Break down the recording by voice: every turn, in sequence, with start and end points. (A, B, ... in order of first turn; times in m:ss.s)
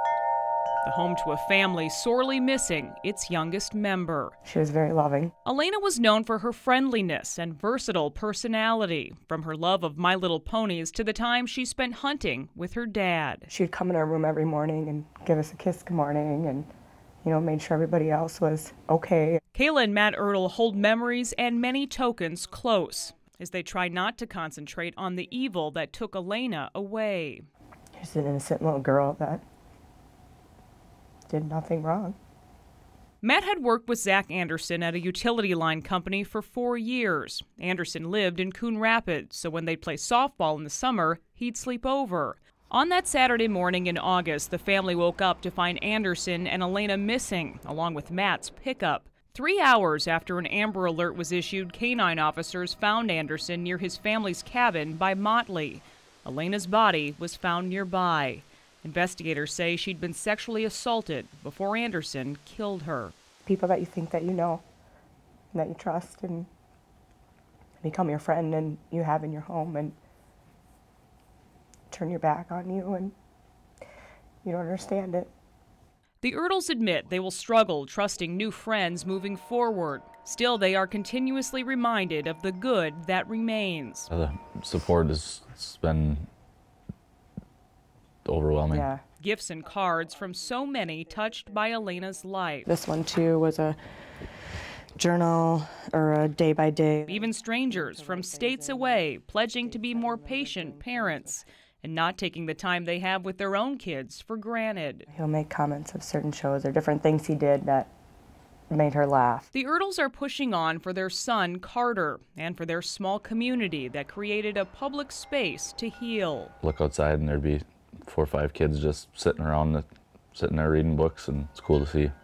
0:00.8-0:04.3 A
0:04.4-0:05.3 B
0:05.4-0:13.5 A
0:13.5-0:16.7 B
0:17.2-0:19.4 B
0:19.5-0:27.4 A
0:28.0-0:29.4 B
0:31.3-0:32.2 B
0:33.2-1:03.1 A
1:03.5-1:04.6 B
1:05.5-1:06.5 B
1:07.8-1:10.0 B
1:11.9-1:13.2 B
1:14.4-1:15.3 B
1:16.2-1:24.1 A
1:24.1-1:26.3 C
1:28.2-1:28.9 C
1:28.7-1:29.0 B
1:29.2-1:32.7 A
1:32.6-1:33.8 B
1:35.0-1:41.4 B
1:37.1-1:45.1 A
1:45.1-1:47.9 B
1:48.7-1:49.5 B
1:49.5-1:56.5 A
1:56.6-2:02.1 C